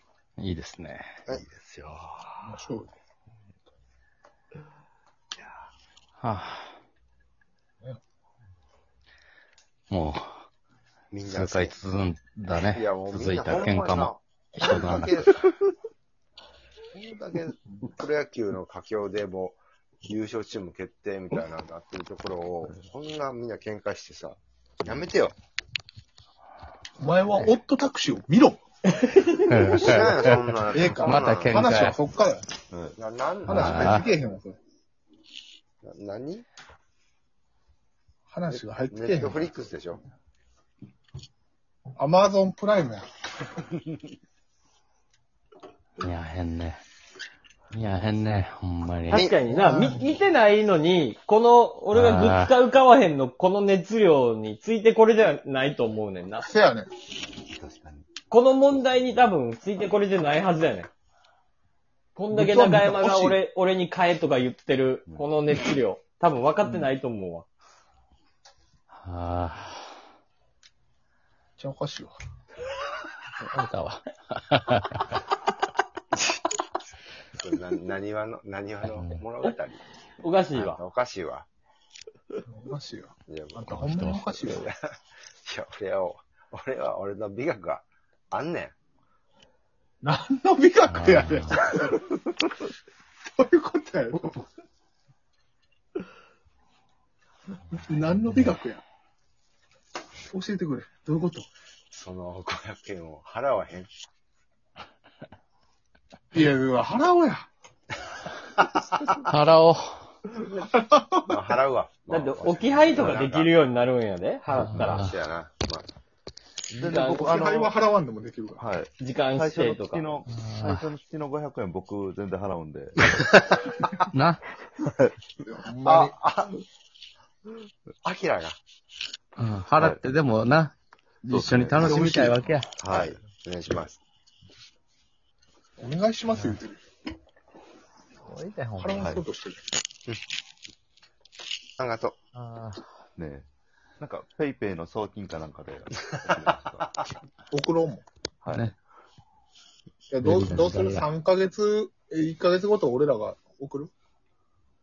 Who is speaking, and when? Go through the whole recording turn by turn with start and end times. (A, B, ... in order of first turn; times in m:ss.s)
0:00.4-0:01.2 A
0:01.3-0:02.6 B
0:02.4-0:02.9 C
0:06.2-0:06.8 A
0:09.9-0:10.3 A
0:11.1-0:11.8 D
0:11.3-0:15.2 A
0:12.4-0:15.5 D
0:16.9-0:25.4 D
0:27.0-0:28.6 C
0:29.4-0:32.0 A
0:29.7-0:31.6 D
0:30.7-0:32.5 C
0:32.7-0:33.0 B
0:33.0-0:34.0 D
0:33.5-0:34.1 A
0:33.5-0:34.6 C
0:35.8-0:36.5 D
0:38.3-0:39.5 C
0:38.5-0:40.0 D
0:42.0-0:43.1 C
0:46.0-0:46.8 A
0:47.7-0:49.3 A
0:49.1-0:56.5 E
0:49.5-0:50.1 C
0:51.9-0:52.5 A
0:56.4-0:56.9 C
0:57.4-0:58.1 B
0:58.3-1:00.9 E
1:02.2-1:07.5 E
1:02.3-1:03.4 C
1:05.1-1:05.4 B
1:08.9-1:09.9 A
1:11.6-1:12.2 C
1:13.4-1:15.2 A
1:17.3-1:19.8 D
1:18.8-1:19.2 A
1:20.2-1:20.8 E
1:20.5-1:21.5 D
1:22.4-1:24.6 C
1:23.3-1:24.8 D
1:23.7-1:24.4 A
1:25.4-1:28.7 D
1:30.0-1:32.0 C
1:30.9-1:31.6 A
1:33.4-1:34.5 C
1:37.7-1:38.8 C
1:40.3-1:41.5 C
1:41.9-1:43.9 D
1:46.3-1:47.5 C
1:49.2-1:50.1 A
1:50.4-1:53.5 D
1:52.1-1:55.0 E
1:54.5-1:55.1 A
1:54.8-1:55.9 D
1:56.7-1:57.8 B
1:56.9-1:58.6 C
1:56.9-1:57.3 E
1:58.6-2:03.1 B
1:59.0-2:00.2 E
2:00.3-2:00.8 A
2:04.1-2:04.5 A
2:05.4-2:06.2 C
2:05.8-2:06.6 D
2:08.0-2:08.6 D
2:09.4-2:12.7 A
2:09.8-2:10.0 B
2:11.3-2:12.0 B
2:11.8-2:12.4 C
2:12.8-2:13.2 B
2:12.9-2:14.0 D
2:15.8-2:16.8 C
2:16.3-2:16.6 A
2:18.2-2:19.0 A
2:18.8-2:19.6 C
2:19.0-2:19.2 B
2:21.8-2:22.2 D
2:22.3-2:22.8 A
2:23.2-2:23.5 B
2:24.0-2:27.0 B
2:27.5-2:28.0 C
2:28.4-2:28.7 B
2:28.5-2:28.8 A
2:30.1-2:33.9 C
2:30.2-2:31.1 A